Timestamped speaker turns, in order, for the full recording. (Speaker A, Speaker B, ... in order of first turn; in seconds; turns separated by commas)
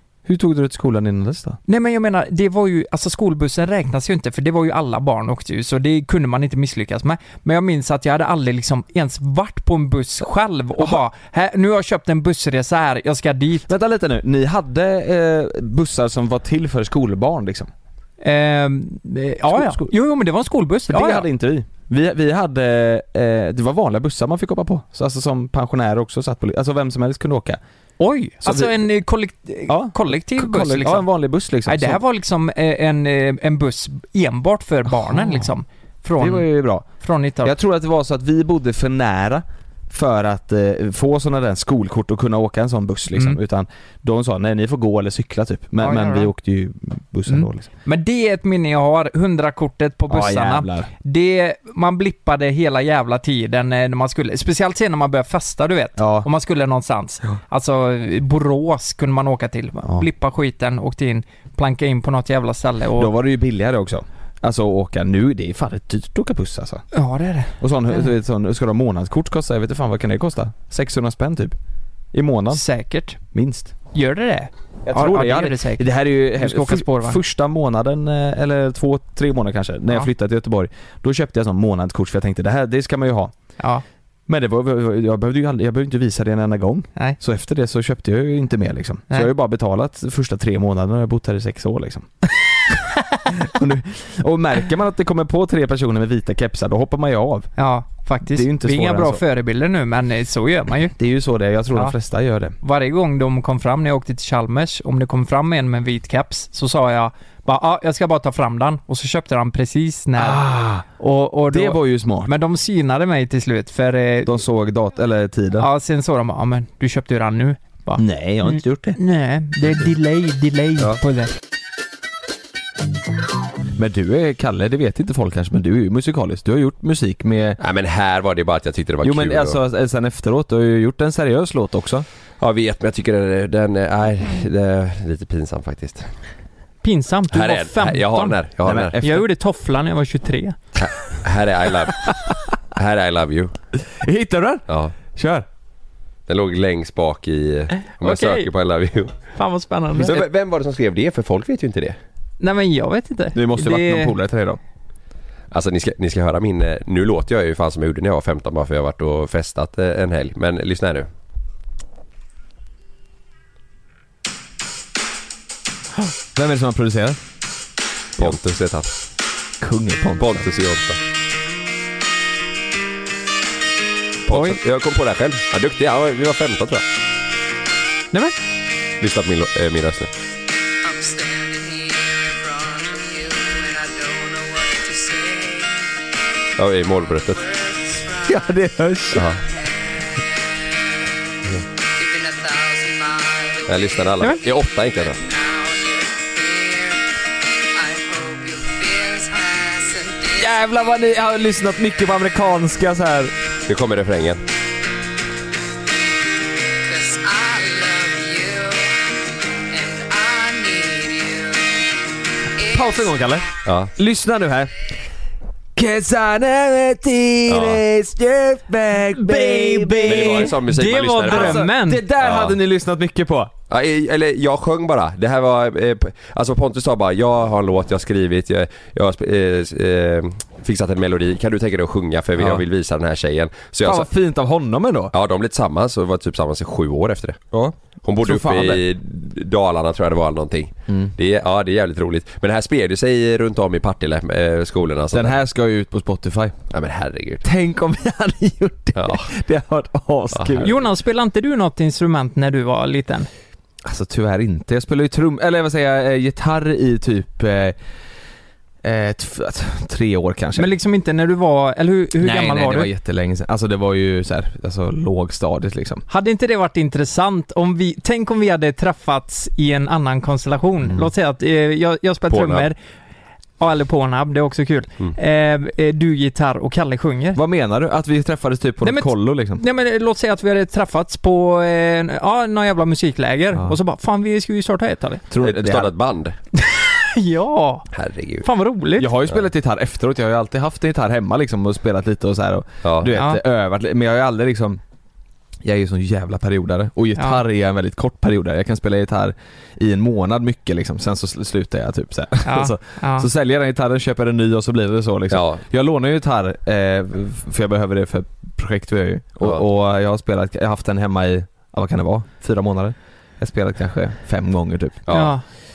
Speaker A: 0.3-1.6, Speaker B: 1.7-13.7, Speaker A: 13.7-17.7, Speaker B: 18.2-21.3, Speaker A: 19.5-19.9, Speaker A: 20.9-27.6, Speaker B: 28.0-31.1, Speaker A: 28.4-28.8, Speaker A: 29.7-32.0, Speaker B: 31.7-37.5, Speaker A: 34.9-35.5, Speaker A: 36.2-36.9, Speaker A: 37.4-47.7, Speaker B: 43.1-43.4, Speaker B: 45.8-46.3, Speaker B: 47.3-63.1, Speaker A: 50.1-50.9, Speaker A: 56.0-56.3, Speaker A: 63.0-66.8, Speaker B: 66.9-67.5, Speaker A: 67.6-71.5, Speaker A: 72.1-72.6, Speaker B: 72.5-73.2, Speaker A: 73.3-73.8, Speaker B: 73.9-77.2, Speaker A: 74.9-83.3, Speaker A: 84.3-92.1, Speaker A: 93.3-97.5, Speaker B: 97.6-101.0, Speaker A: 98.2-99.2, Speaker A: 100.9-102.6, Speaker B: 102.6-114.4, Speaker A: 110.2-110.8, Speaker A: 111.5-112.3, Speaker A: 114.3-115.7, Speaker B: 115.6-121.3, Speaker A: 118.0-119.0, Speaker A: 123.8-127.6, Speaker C: 127.6-129.6, Speaker A: 129.0-132.1, Speaker C: 132.4-136.1, Speaker B: 136.8-138.4, Speaker C: 137.3-139.0, Speaker A: 138.6-139.3, Speaker B: 139.0-140.6, Speaker C: 140.8-143.5, Speaker A: 143.8-145.5, Speaker C: 144.7-144.9, Speaker C: 146.3-149.2, Speaker B: 147.9-148.5, Speaker B: 149.3-150.3, Speaker C: 150.0-152.0, Speaker B: 152.4-154.2, Speaker A: 153.3-154.6, Speaker C: 155.5-161.1, Speaker A: 166.3-167.2, Speaker C: 168.2-168.9, Speaker A: 169.6-170.5, Speaker C: 170.2-171.0, Speaker C: 174.3-176.8, Speaker B: 174.3-174.6, Speaker C: 179.0-180.1, Speaker D: 180.8-185.9, Speaker C: 186.6-187.5, Speaker D: 187.3-188.5, Speaker A: 188.2-189.3, Speaker C: 189.1-189.4, Speaker D: 192.0-194.2, Speaker C: 193.7-195.2, Speaker D: 195.2-197.0, Speaker D: 197.7-200.3, Speaker A: 200.3-203.3, Speaker C: 203.7-204.4, Speaker D: 206.9-209.0, Speaker D: 209.7-211.7, Speaker A: 212.7-214.7, Speaker C: 213.7-213.9, Speaker A: 215.8-220.6, Speaker C: 217.5-217.8, Speaker B: 219.1-222.0, Speaker C: 220.1-221.7, Speaker A: 221.2-223.5, Speaker C: 222.2-222.6, Speaker C: 223.7-234.1, Speaker A: 232.4-232.7, Speaker A: 233.8-235.1, Speaker C: 235.1-237.4, Speaker A: 237.5-238.8, Speaker C: 238.1-245.4, Speaker A: 245.1-246.6, Speaker C: 246.7-247.4, Speaker A: 247.4-250.8, Speaker C: 248.9-249.2, Speaker C: 250.3-250.7, Speaker B: 250.6-253.3, Speaker A: 253.9-257.8, Speaker A: 258.8-260.7, Speaker B: 260.6-262.9, Speaker A: 262.2-266.0, Speaker B: 266.1-272.8, Speaker A: 270.9-271.1, Speaker C: 272.3-272.7, Speaker B: 273.6-277.4, Speaker A: 277.4-279.6, Speaker B: 278.8-285.2, Speaker A: 285.3-285.9, Speaker C: 285.4-286.4, Speaker B: 286.6-287.9, Speaker C: 287.9-288.5, Speaker B: 288.4-289.1, Speaker A: 289.0-294.8, Speaker C: 292.8-293.1, Speaker B: 293.2-293.4, Speaker A: 295.6-315.2, Speaker B: 302.4-303.3, Speaker C: 305.3-305.6, Speaker C: 315.1-315.3, Speaker B: 315.1-315.4